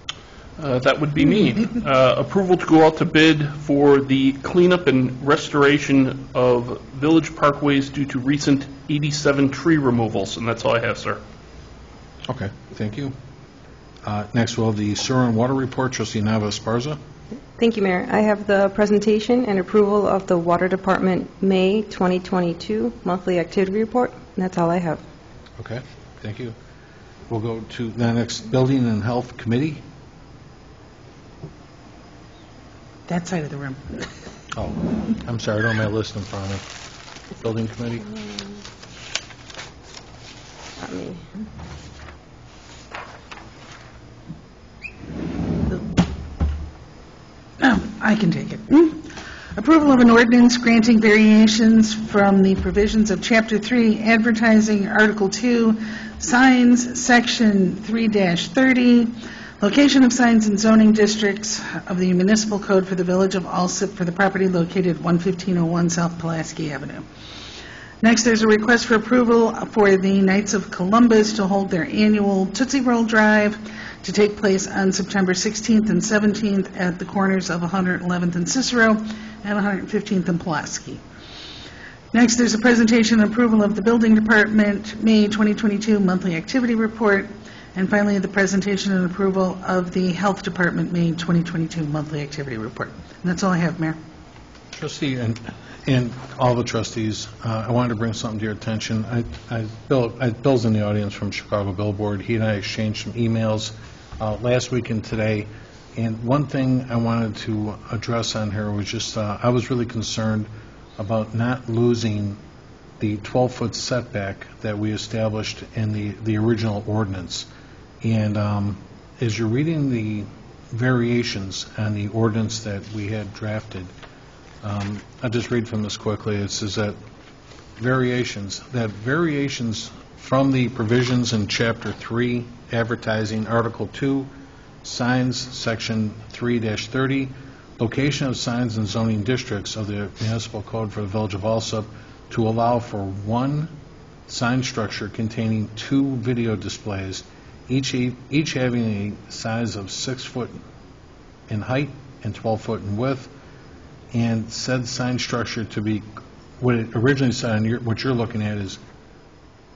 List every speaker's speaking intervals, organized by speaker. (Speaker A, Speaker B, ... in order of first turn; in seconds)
Speaker A: 0.6-11.2
Speaker B: 12.3-13.2, 14.0-17.0, 25.6-26.6, 27.3-29.8, 34.5-36.6, 37.4-38.1, 94.7-112.4, 113.0-117.5, 118.0-123.9, 124.6-127.0, 127.8-134.3, 134.8-143.7, 144.3-150.6, 151.5-153.3, 154.1-156.1, 156.6-158.8
Speaker C: 17.6-25.0, 40.8-41.2
Speaker D: 33.1-34.1, 47.6-67.0, 68.0-81.0, 82.1-94.0